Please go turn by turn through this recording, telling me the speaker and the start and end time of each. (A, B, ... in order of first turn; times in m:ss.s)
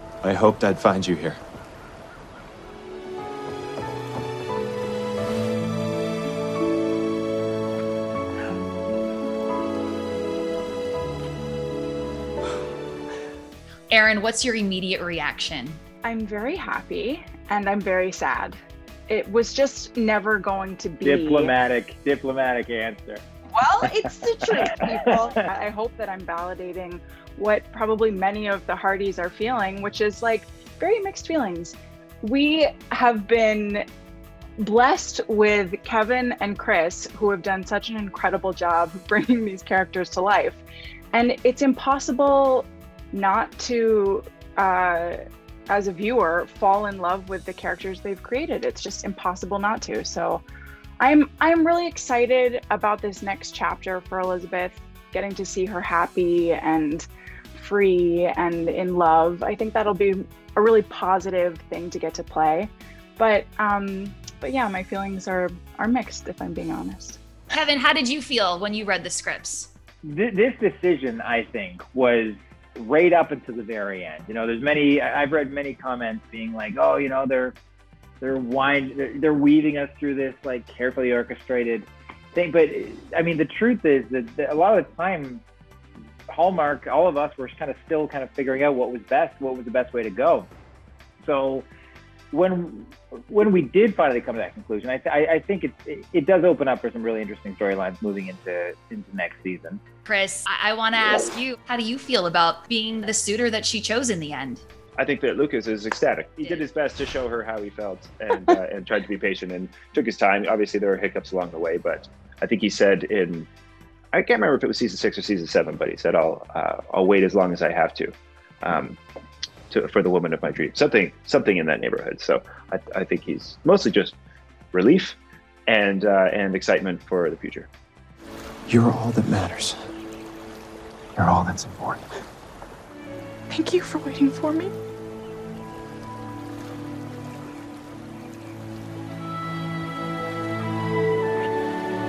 0:00.2-0:01.4 A
0:13.9-0:15.8 B
0:16.0-0:18.6 C
0:19.1-0:21.5 C
0:21.0-0:23.2 D
0:23.5-0:33.8 C
0:24.5-0:25.0 D
0:34.6-0:45.2 C
0:45.7-0:50.4 C
0:51.0-1:07.2 C
1:07.5-1:09.7 B
1:10.0-1:17.5 D
1:18.2-1:25.4 D
1:26.3-1:30.5 D
1:31.2-1:31.7 D
1:32.3-1:39.8 D
1:40.0-1:44.6 B
1:45.0-1:53.5 E
1:46.4-1:46.7 B
1:54.1-1:59.0 E
1:59.7-2:04.2 E
2:04.7-2:07.7 E
2:08.7-2:09.8 A
2:11.2-2:12.1 A
2:13.5-2:14.7 C